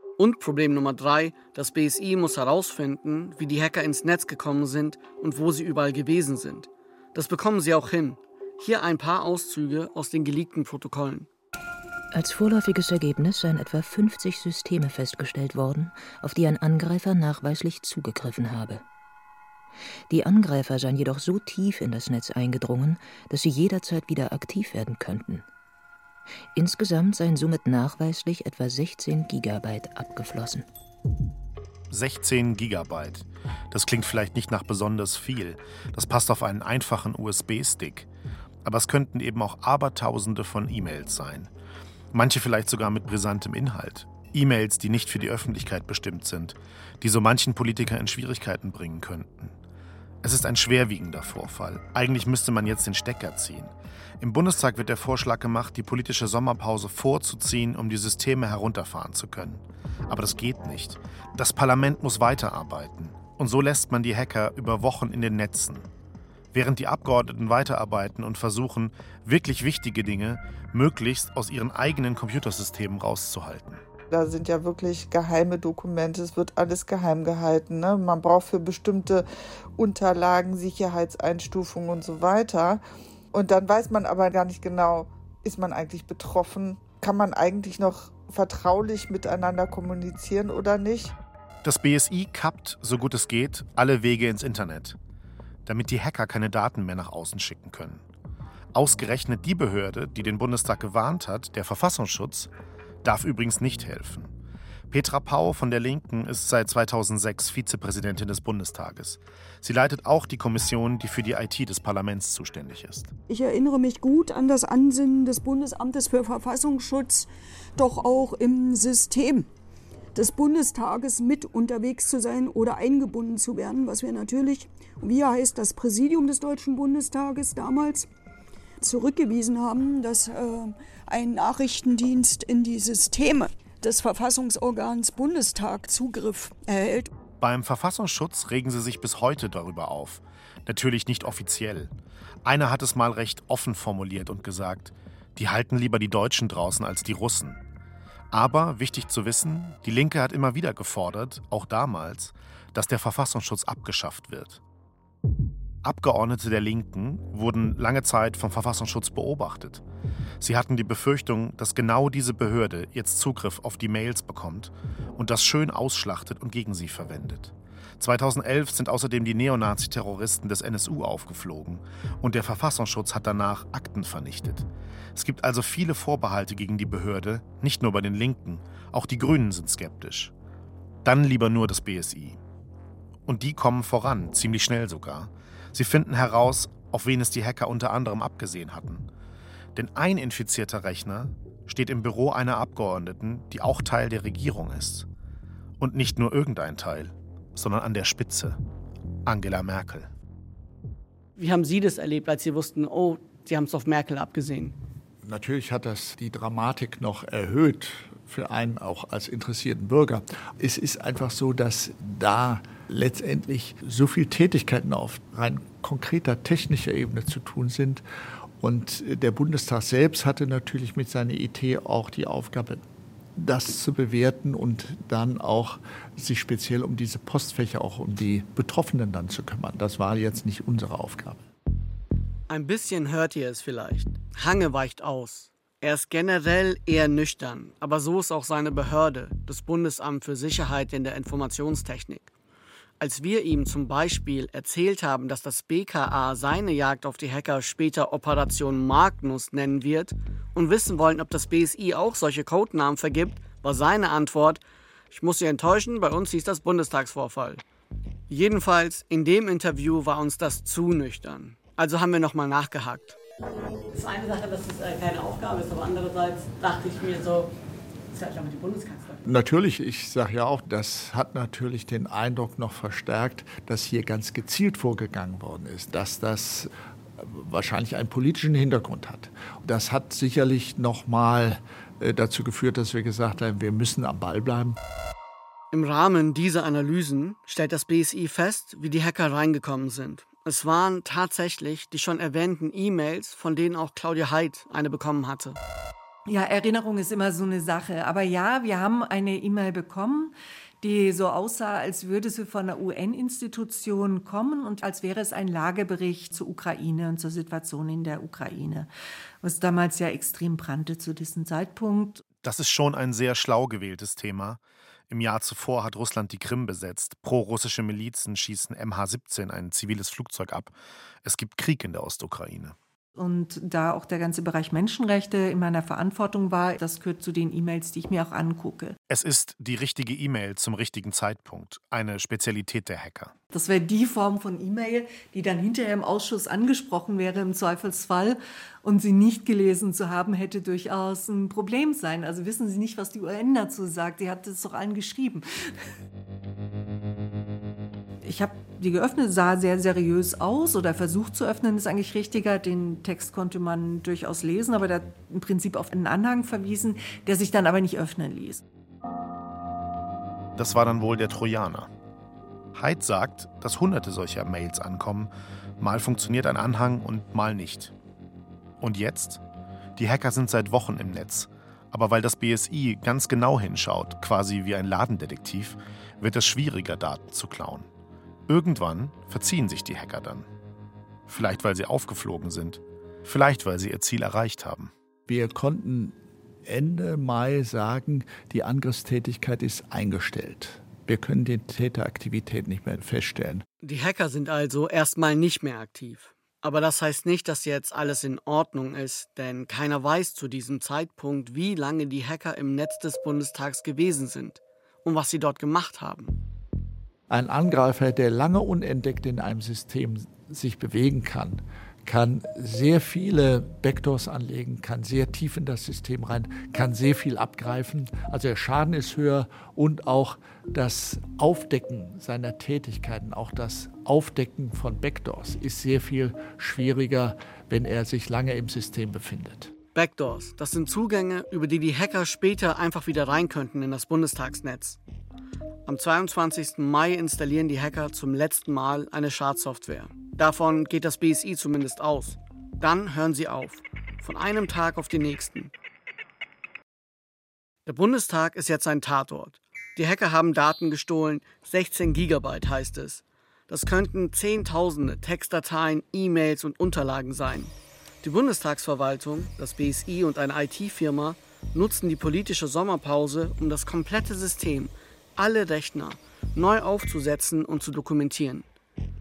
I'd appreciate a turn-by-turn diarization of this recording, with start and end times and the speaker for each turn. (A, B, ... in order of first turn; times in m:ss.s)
0:00.2-0:11.3 A
0:12.1-0:18.8 B
0:20.1-0:25.4 B
0:26.5-0:30.7 B
0:31.9-0:38.1 C
0:38.6-0:41.5 C
0:42.1-0:49.5 C
0:50.2-1:05.9 C
1:06.5-1:13.8 C
1:14.1-1:19.2 D
1:19.8-1:22.8 D
1:23.3-1:31.1 D
1:31.6-1:35.0 C
1:35.6-1:38.0 C
1:38.7-1:42.5 C
1:43.0-1:44.3 C
1:44.9-1:53.1 C
1:53.3-1:59.5 E
2:00.1-2:08.1 E
2:08.8-2:17.1 E
2:17.4-2:21.9 C
2:22.4-2:27.6 C
2:28.3-2:34.6 C
2:35.8-2:39.8 C
2:40.4-3:00.3 C
3:01.0-3:02.4 C
3:03.2-3:09.1 C
3:09.7-3:15.1 C
3:15.8-3:18.6 C
3:19.2-3:20.1 C
3:21.4-3:24.7 A
3:25.2-3:38.0 F
3:38.6-3:42.8 F
3:43.4-3:51.5 F
3:52.5-4:02.3 A
4:03.0-4:17.6 A
4:18.3-4:23.2 A
4:23.9-4:27.5 A
4:28.1-4:29.2 A
4:29.2-4:44.8 F
4:45.7-4:55.6 A
4:56.2-5:08.9 G
5:09.4-5:12.2 G
5:12.4-5:22.8 C
5:23.2-5:29.0 G
5:29.1-5:33.3 C
5:33.5-5:45.4 G
5:48.2-5:58.6 G
6:00.6-6:01.9 C
6:02.7-6:07.9 C
6:08.8-6:09.4 C
6:10.0-6:17.9 C
6:18.5-6:20.5 C
6:21.3-6:24.9 C
6:25.3-6:33.6 F
6:33.8-6:46.4 A
6:47.3-7:09.7 F
7:09.9-7:15.0 A
7:15.8-7:25.7 A
7:27.8-7:48.7 A